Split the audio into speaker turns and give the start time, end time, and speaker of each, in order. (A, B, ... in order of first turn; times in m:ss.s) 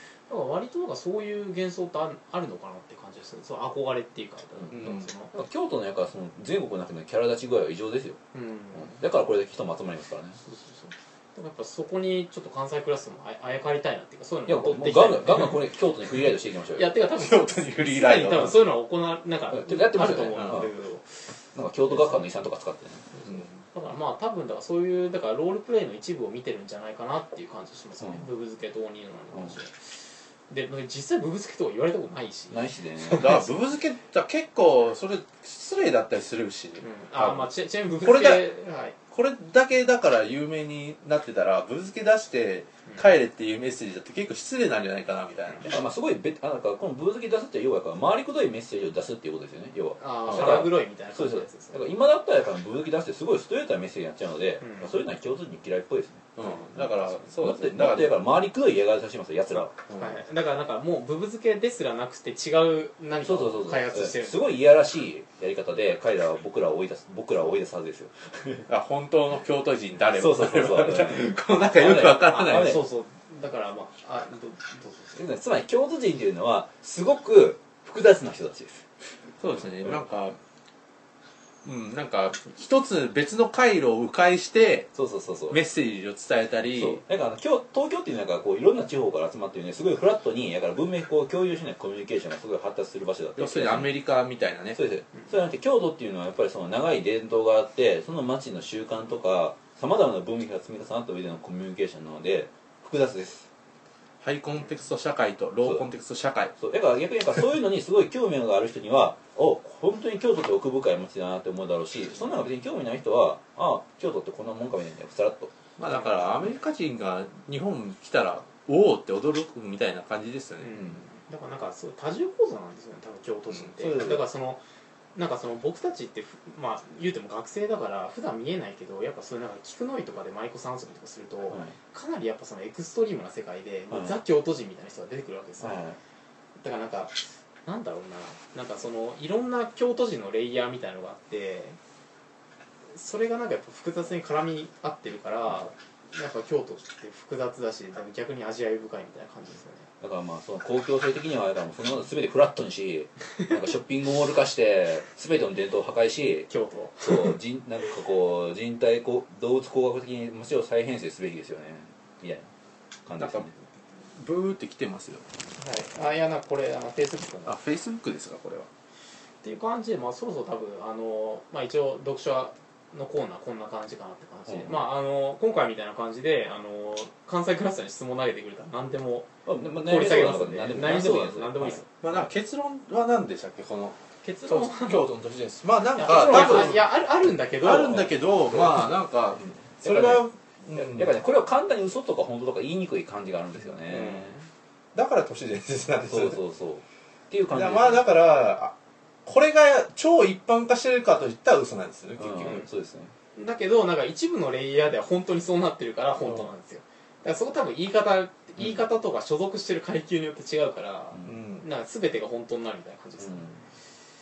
0:00.3-0:05.3 A
0:04.7-0:05.0 B
0:05.3-0:08.2 C
0:08.3-0:09.0 A
0:08.7-0:10.4 C
0:10.4-0:15.6 A
0:14.5-0:16.9 C
0:16.8-0:21.0 A
0:17.2-0:18.6 B
0:19.5-0:20.7 C
0:21.5-0:23.1 C
0:21.9-0:22.2 A
0:23.2-0:30.0 A
0:23.3-0:23.6 B
0:30.5-0:33.4 A
0:32.5-0:33.4 C
0:33.2-0:36.8 B
0:36.8-0:39.0 A
0:37.2-0:37.4 C
0:38.0-0:38.5 B
0:39.1-0:45.8 B
0:45.6-0:56.4 C
0:50.0-0:51.8 A
0:54.6-0:54.9 A
0:56.4-0:58.2 B
0:57.4-0:59.8 C
0:59.9-1:00.2 B
1:00.0-1:04.6 A
1:03.2-1:08.7 C
1:08.7-1:12.8 B
1:10.1-1:12.8 C
1:11.8-1:15.2 A
1:15.1-1:18.8 C
1:19.4-1:20.4 B
1:21.6-1:24.9 B
1:24.9-1:25.6 C
1:25.5-1:27.0 B
1:26.7-1:34.0 C
1:33.4-1:34.8 B
1:34.7-1:43.5 C
1:44.2-1:46.5 B
1:46.6-1:55.5 C
1:55.8-2:00.8 B
1:55.9-1:56.2 A
2:00.6-2:04.6 A
2:03.8-2:04.3 C
2:05.1-2:15.8 A
2:11.5-2:11.7 C
2:13.9-2:14.2 C
2:15.6-2:16.0 C
2:16.6-2:21.8 A
2:22.9-2:29.9 A
2:30.0-2:42.5 C
2:36.5-2:37.4 A
2:43.0-2:43.5 C
2:43.2-2:43.5 B
2:44.2-2:45.2 B
2:45.6-2:47.6 A
2:47.4-2:48.7 B
2:49.4-3:02.0 A
2:59.4-3:01.8 C
3:02.0-3:06.8 B
3:04.2-3:05.1 A
3:06.0-3:08.1 A
3:06.1-3:06.8 C
3:07.6-3:11.2 B
3:08.1-3:14.3 C
3:13.9-3:14.4 A
3:14.9-3:16.4 B
3:16.1-3:18.1 C
3:17.5-3:18.7 B
3:19.2-3:22.6 B
3:22.2-3:23.1 C
3:23.3-3:33.6 A
3:31.2-3:31.6 B
3:33.2-3:33.6 C